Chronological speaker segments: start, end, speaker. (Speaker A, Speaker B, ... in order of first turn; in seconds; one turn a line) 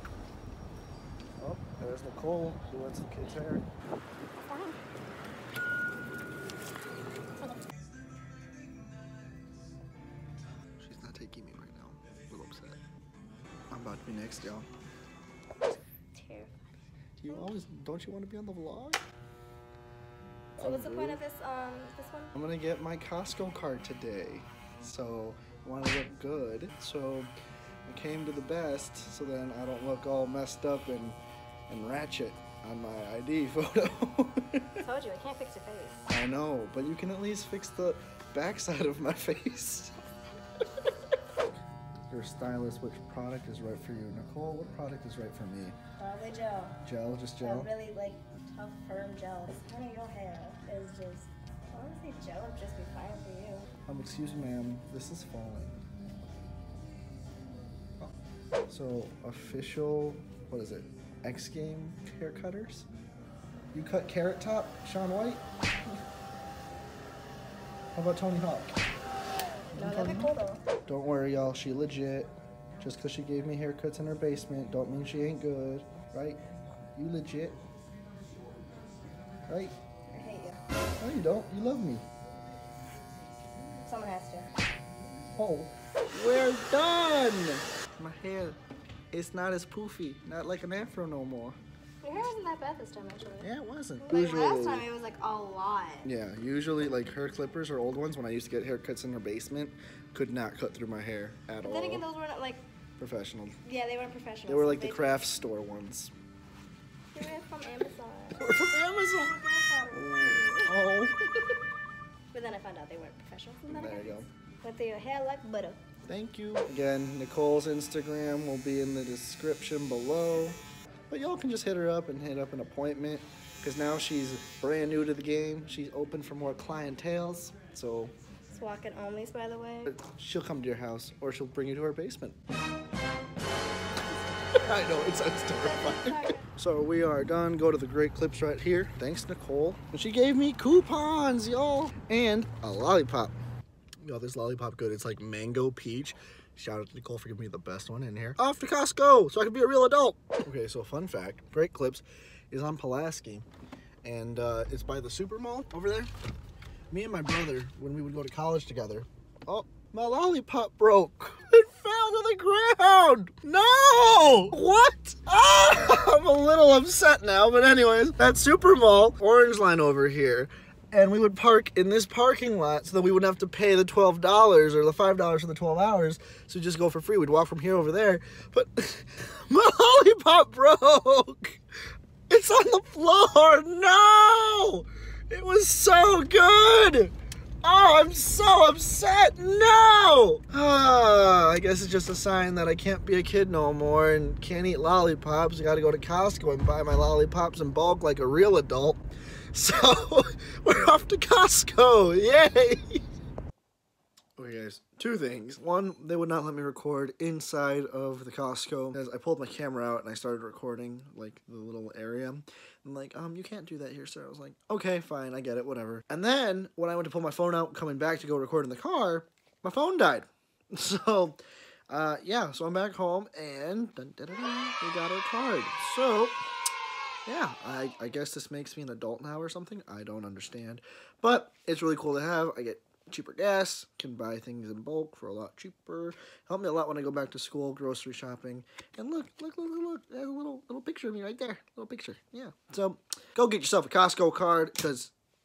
Speaker A: 1.4-3.7
Speaker B: 4.5-4.8
Speaker A: 10.8-12.8
Speaker A: 13.7-14.7
Speaker B: 16.1-16.7
Speaker A: 17.2-19.0
Speaker B: 17.3-17.5
Speaker B: 20.6-22.4
Speaker A: 20.6-21.2
Speaker A: 22.4-27.3
Speaker A: 27.9-31.2
Speaker A: 31.7-34.8
Speaker B: 34.8-36.0
Speaker A: 36.1-39.9
Speaker A: 42.1-45.8
Speaker B: 46.0-46.8
Speaker A: 46.8-47.7
Speaker B: 47.4-53.7
Speaker A: 53.9-55.8
Speaker A: 58.7-62.9
Speaker A: 63.7-65.4
Speaker A: 68.0-68.8
Speaker A: 69.8-70.3
Speaker B: 69.8-70.6
Speaker A: 70.8-76.4
Speaker A: 77.0-77.6
Speaker A: 79.5-79.8
Speaker B: 80.1-80.6
Speaker A: 81.0-82.0
Speaker B: 83.8-84.5
Speaker A: 85.4-88.6
Speaker A: 89.1-91.6
Speaker B: 92.0-96.1
Speaker A: 93.4-94.9
Speaker A: 96.0-102.0
Speaker B: 101.6-102.6
Speaker A: 103.0-103.6
Speaker B: 103.7-105.2
Speaker A: 104.5-106.1
Speaker B: 107.1-108.7
Speaker A: 108.3-111.2
Speaker B: 109.2-111.6
Speaker B: 112.3-115.8
Speaker A: 113.7-114.3
Speaker A: 116.0-128.1
Speaker B: 128.5-130.0
Speaker A: 129.9-132.4
Speaker A: 134.6-143.4
Speaker B: 135.5-136.5
Speaker A: 144.0-153.5
Speaker A: 154.0-156.1
Speaker A: 156.9-181.6
Speaker A: 182.3-187.1
Speaker A: 187.6-199.0
Speaker A: 199.5-203.0
Speaker A: 204.4-226.4
Speaker A: 227.3-245.1